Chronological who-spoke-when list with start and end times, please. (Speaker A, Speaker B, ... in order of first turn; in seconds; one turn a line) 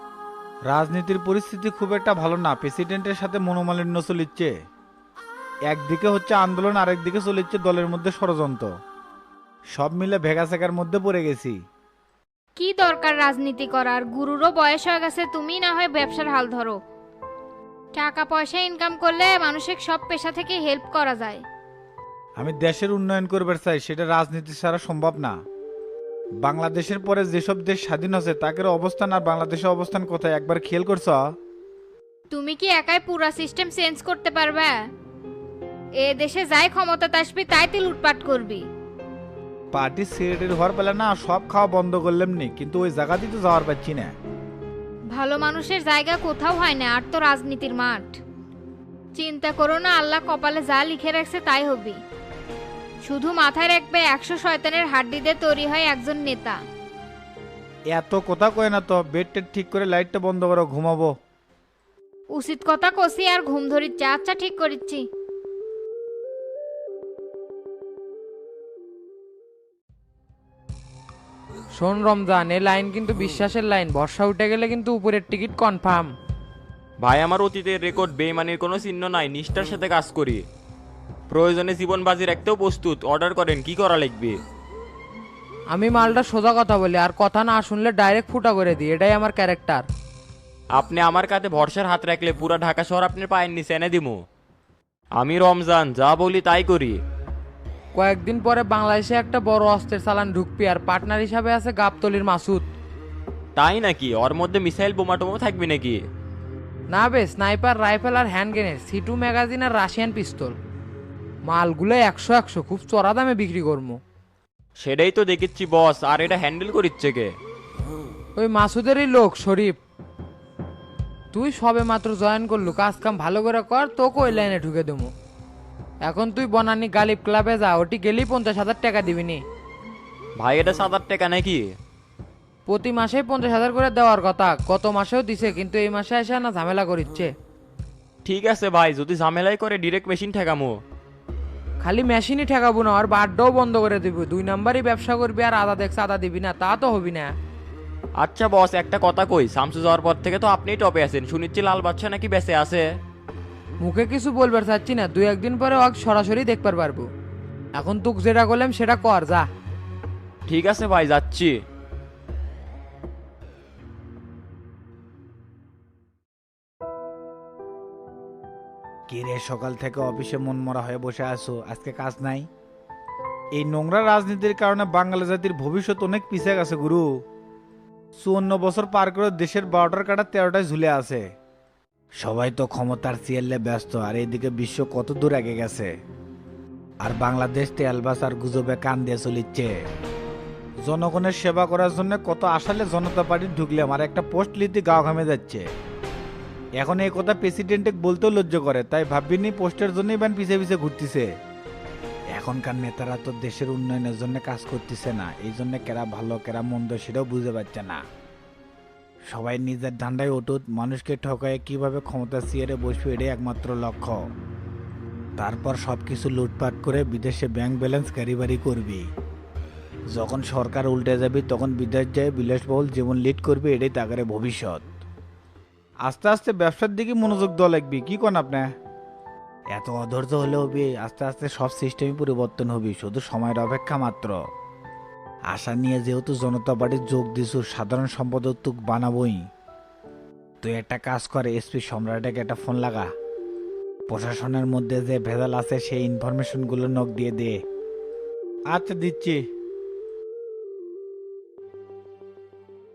Speaker A: 0.7-4.5
Speaker A: 5.7-8.7
Speaker A: 9.7-11.6
Speaker B: 12.6-16.8
Speaker B: 17.9-21.4
Speaker A: 22.4-25.3
Speaker A: 26.4-31.2
Speaker B: 32.3-34.8
Speaker B: 36.0-38.6
Speaker A: 39.7-44.1
Speaker B: 45.1-48.2
Speaker B: 49.1-52.0
Speaker B: 53.0-56.6
Speaker A: 57.9-61.1
Speaker B: 62.3-65.0
Speaker C: 71.8-76.1
Speaker D: 77.0-80.4
Speaker D: 81.3-84.4
Speaker C: 85.7-89.8
Speaker D: 90.7-94.2
Speaker D: 95.2-97.0
Speaker C: 98.0-102.7
Speaker D: 103.5-106.0
Speaker C: 106.9-110.5
Speaker C: 111.5-114.0
Speaker D: 114.8-117.3
Speaker C: 118.4-119.8
Speaker C: 121.3-125.1
Speaker C: 126.1-129.4
Speaker D: 130.4-131.7
Speaker C: 132.7-137.3
Speaker D: 138.2-140.8
Speaker C: 141.8-147.3
Speaker D: 148.2-152.8
Speaker C: 153.8-157.1
Speaker C: 157.8-159.5
Speaker D: 160.5-161.6
Speaker A: 169.1-172.5
Speaker A: 173.6-177.1
Speaker A: 178.2-181.2
Speaker A: 182.2-185.9
Speaker A: 187.0-189.7
Speaker A: 190.9-195.7
Speaker A: 196.8-201.3
Speaker A: 202.3-208.0
Speaker A: 209.3-214.2
Speaker A: 215.4-219.0
Speaker A: 220.1-224.8
Speaker A: 226.1-228.7
Speaker A: 229.7-234.3
Speaker A: 235.5-239.4
Speaker A: 240.6-243.1
Speaker A: 244.1-247.6
Speaker A: 248.7-249.4